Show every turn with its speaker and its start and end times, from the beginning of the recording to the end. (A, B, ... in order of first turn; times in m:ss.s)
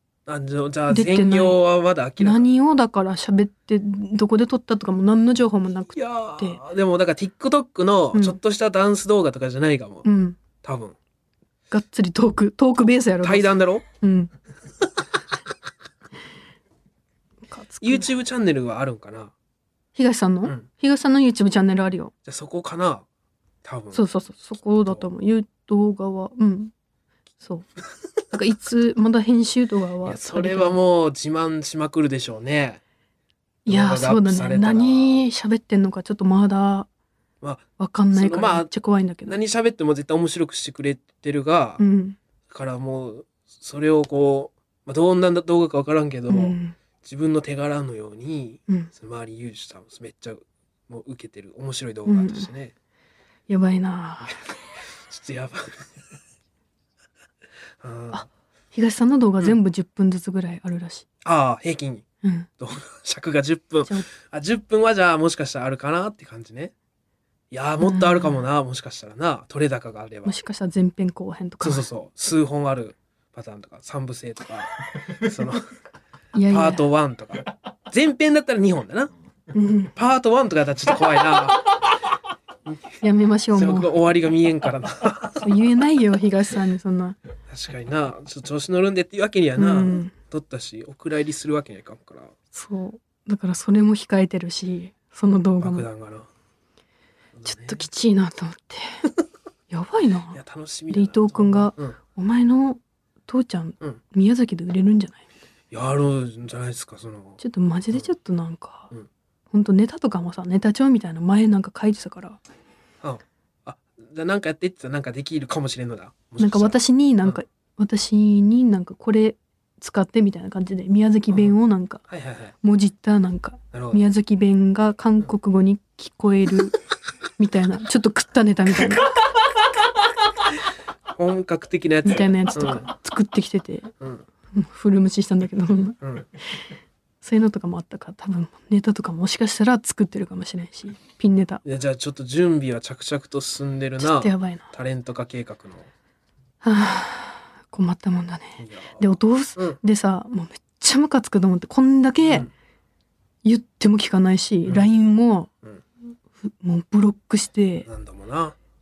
0:00.3-0:02.5 A
0:00.9-0:01.6 B
0:02.2-0:06.6 B
0:06.0-0:10.1 A
0:08.1-0:08.4 B
0:10.0-0:10.4 B
0:10.6-0:11.0 A
0:11.7-0:14.3 B
0:13.2-0:13.8 A
0:17.5-0:18.1 B
0:17.8-0:19.3 A
0:20.0-0:22.1 B
0:22.2-0:23.0 A
0:23.6-0:24.0 A
0:23.9-0:26.7 B
0:28.3-0:30.8 B
0:30.1-0:32.8 A
0:33.7-0:36.9 B
0:33.7-0:35.2 A
0:37.4-0:38.7 A
0:37.8-0:39.4 B
0:39.3-0:41.8 A
0:41.8-0:42.2 B
0:42.5-0:52.7 A
0:46.3-0:46.8 B
0:52.1-0:52.5 B
0:53.5-0:54.4 B
0:55.1-0:55.9 A
0:57.8-0:58.2 A
0:58.1-1:01.1 B
1:01.2-1:02.0 A
1:02.2-1:02.5 B
1:02.6-1:06.7 A
1:07.5-1:10.3 A
1:07.8-1:08.4 B
1:10.3-1:11.8 B
1:11.6-1:15.7 A
1:16.3-1:16.8 B
1:16.5-1:19.1 A
1:19.5-1:19.9 B
1:20.0-1:21.8 A
1:23.0-1:23.9 B
1:23.5-1:25.5 A
1:25.4-1:27.2 B
1:27.5-1:32.3 A
1:29.6-1:30.1 B
1:32.5-1:35.9 B
1:35.6-1:36.3 A
1:37.4-1:37.8 A
1:37.4-1:39.1 B
1:39.7-1:40.4 B
1:40.3-1:42.0 A
1:40.9-1:45.2 B
1:45.7-1:47.4 A
1:47.4-1:48.9 B
1:49.5-1:52.4 B
1:53.0-1:57.4 A
1:56.4-2:02.0 B
2:02.1-2:02.5 A
2:02.6-2:06.8 B
2:03.7-2:04.0 A
2:07.4-2:09.1 B
2:11.1-2:12.9 A
2:12.0-2:13.9 B
2:14.5-2:16.0 B
2:17.2-2:21.6 B
2:21.6-2:25.9 A
2:24.0-2:24.7 B
2:26.6-2:32.5 B
2:28.6-2:29.0 A
2:32.2-2:32.5 A
2:33.4-2:35.5 B
2:36.4-2:37.9 B
2:37.9-2:38.6 A